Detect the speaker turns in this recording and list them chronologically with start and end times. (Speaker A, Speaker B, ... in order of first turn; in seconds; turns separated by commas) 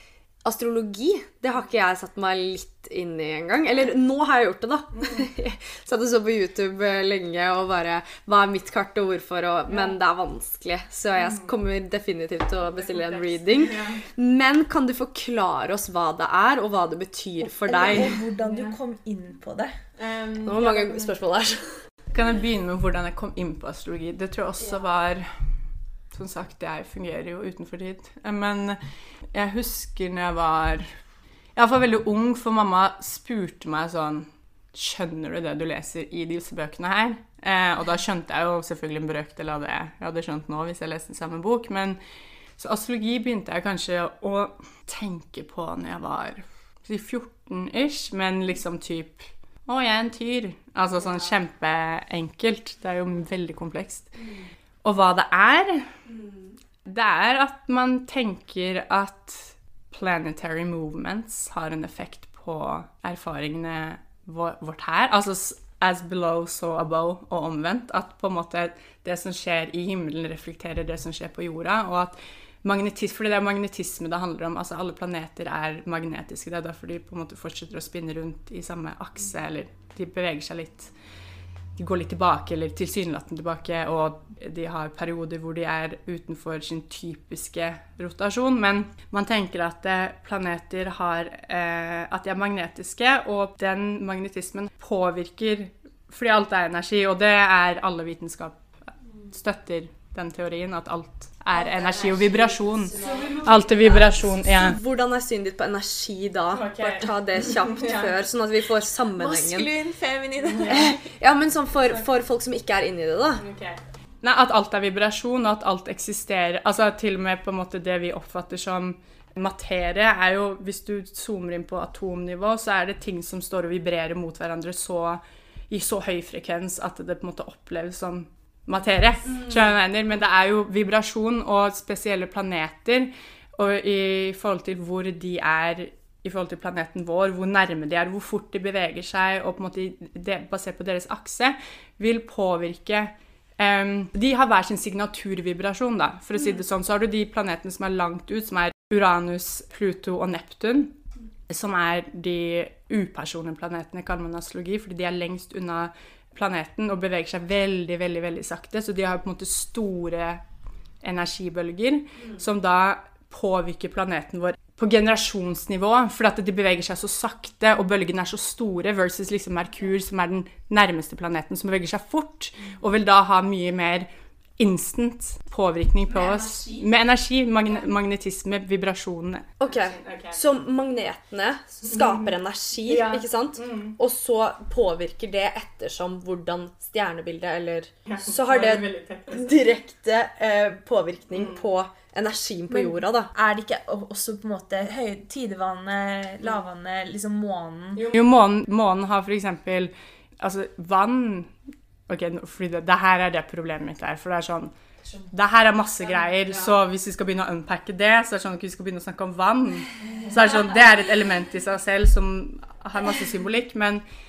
Speaker A: 0.4-18.2, Speaker B: 13.7-14.0, Speaker C: 17.6-20.9, Speaker B: 18.4-18.7, Speaker A: 20.4-21.7, Speaker B: 22.1-25.3, Speaker B: 26.1-28.8, Speaker B: 29.3-30.9, Speaker B: 31.6-42.0, Speaker B: 42.6-54.1, Speaker B: 54.8-55.9, Speaker B: 56.8-80.9, Speaker B: 81.8-98.7, Speaker B: 99.3-104.8, Speaker A: 103.0-109.7, Speaker B: 106.5-108.1, Speaker C: 109.2-111.0, Speaker A: 110.6-113.4, Speaker B: 113.4-151.0, Speaker B: 151.5-160.4, Speaker B: 161.0-180.4, Speaker A: 179.6-193.3, Speaker B: 181.9-182.2, Speaker B: 182.8-184.0, Speaker B: 188.1-189.5, Speaker C: 192.8-198.1, Speaker B: 198.0-201.5, Speaker B: 202.1-204.7, Speaker B: 205.3-214.0